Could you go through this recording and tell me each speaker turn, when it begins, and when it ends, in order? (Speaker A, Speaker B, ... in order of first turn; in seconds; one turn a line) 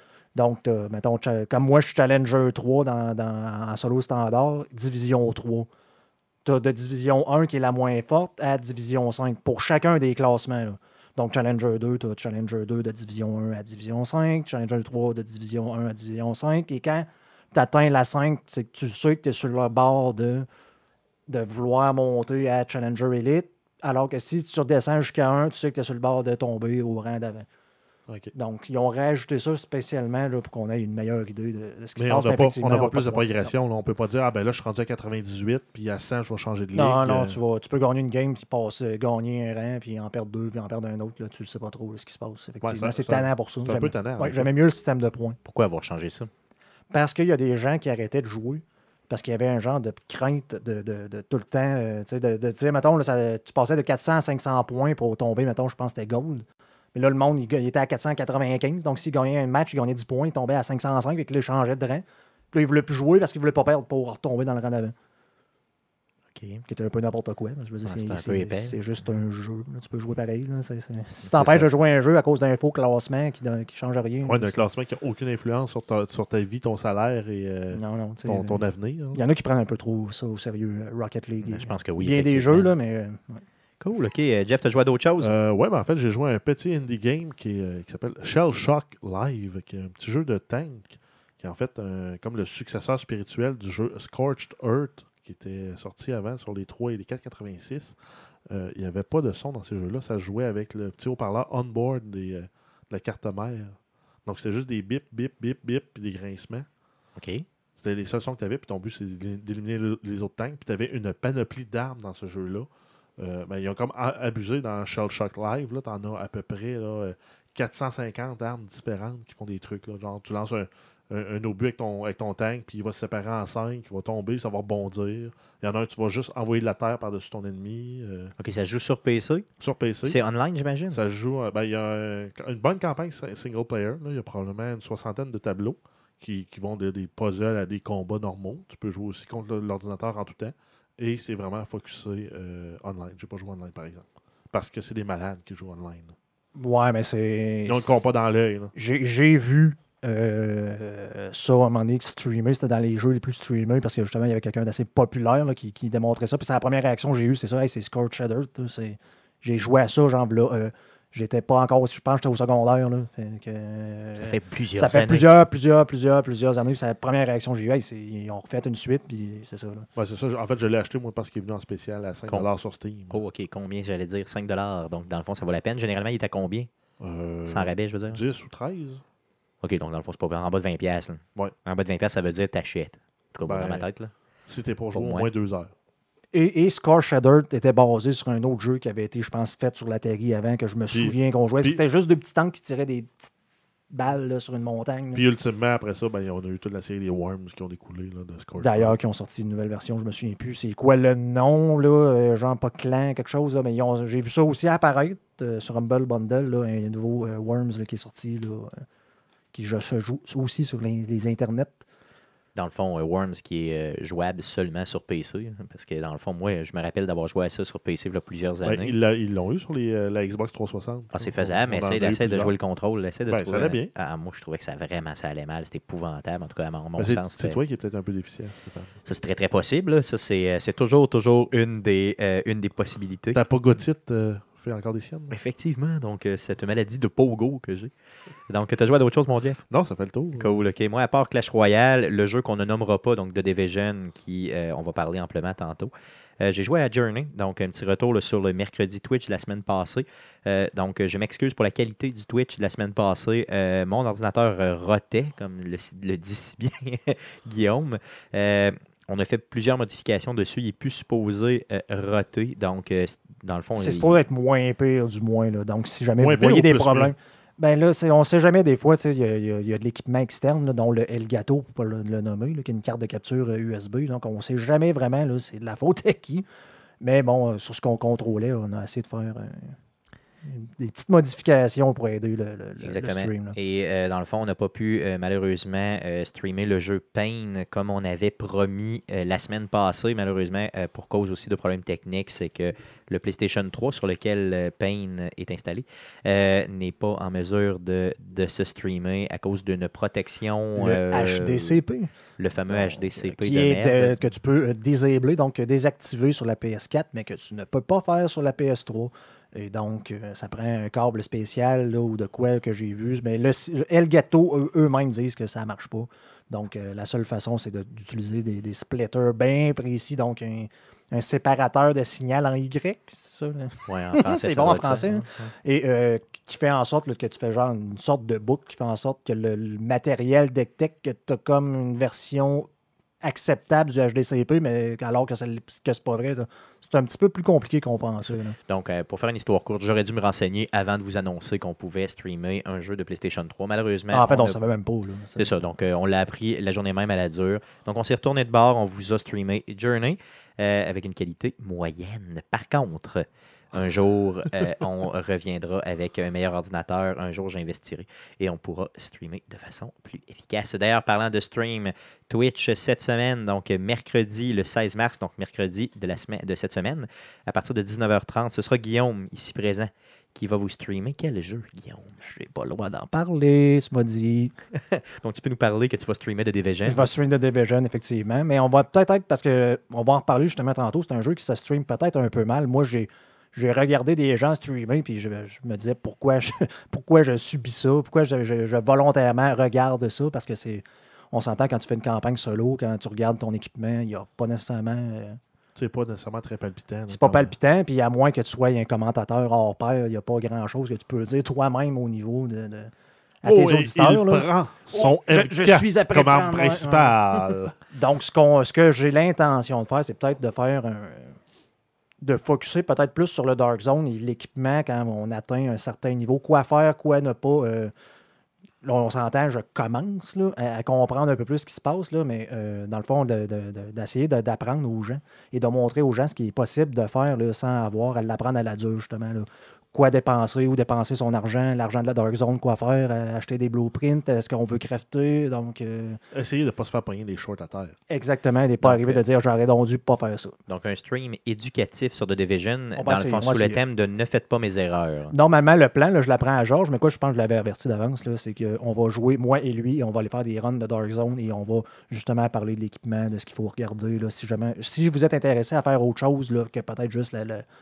Speaker A: 0.3-5.7
Speaker A: 6.5-20.5
Speaker A: 21.3-27.5
Speaker A: 28.3-33.5
Speaker B: 32.0-37.4
Speaker A: 36.8-45.4
Speaker B: 42.6-44.5
Speaker C: 45.5-46.3
Speaker A: 46.9-64.9
Speaker C: 66.3-66.7
Speaker A: 66.7-74.6
Speaker C: 67.8-68.8
Speaker C: 71.3-71.7
Speaker B: 74.3-79.2
Speaker A: 77.7-83.4
Speaker C: 81.5-82.7
Speaker C: 83.8-85.3
Speaker B: 85.2-98.0
Speaker B: 98.5-106.7
Speaker C: 107.2-107.5
Speaker B: 107.8-128.3
Speaker C: 128.4-129.5
Speaker B: 129.6-130.2
Speaker C: 130.0-131.0
Speaker B: 130.9-146.1
Speaker A: 146.6-148.0
Speaker B: 147.7-148.7
Speaker A: 148.8-169.9
Speaker C: 164.2-165.3
Speaker B: 170.0-173.2
Speaker C: 173.1-176.7
Speaker B: 177.0-179.0
Speaker C: 177.5-178.2
Speaker C: 179.6-184.1
Speaker B: 183.4-183.9
Speaker B: 184.5-185.7
Speaker C: 184.9-185.3
Speaker A: 186.3-193.3
Speaker B: 190.9-191.8
Speaker A: 193.9-195.2
Speaker B: 195.2-199.0
Speaker A: 198.6-208.8
Speaker A: 209.5-211.8
Speaker C: 212.6-218.9
Speaker B: 218.6-222.5
Speaker C: 221.1-227.6
Speaker B: 223.3-223.9
Speaker B: 227.0-229.0
Speaker C: 229.1-233.4
Speaker B: 233.3-235.3
Speaker C: 235.3-237.9
Speaker C: 238.5-239.6
Speaker B: 239.7-240.6
Speaker C: 240.4-264.2
Speaker A: 263.8-276.4
Speaker B: 266.2-267.1
Speaker A: 277.0-279.8
Speaker A: 280.4-283.6
Speaker C: 282.8-301.8
Speaker A: 300.8-302.1
Speaker C: 302.4-304.1
Speaker A: 302.7-332.7
Speaker C: 323.9-325.5
Speaker A: 333.2-338.6
Speaker C: 338.3-344.6
Speaker A: 344.1-345.5
Speaker C: 345.4-372.2
Speaker A: 372.2-374.5
Speaker C: 374.7-377.0
Speaker A: 376.9-395.4
Speaker B: 395.8-397.5
Speaker A: 397.1-402.9
Speaker A: 403.4-411.4
Speaker B: 403.4-407.7
Speaker A: 412.2-417.9
Speaker A: 418.8-436.2
Speaker B: 436.3-438.0
Speaker A: 438.1-440.6
Speaker C: 438.8-439.2
Speaker C: 440.7-445.3
Speaker A: 443.0-443.8
Speaker A: 445.3-457.6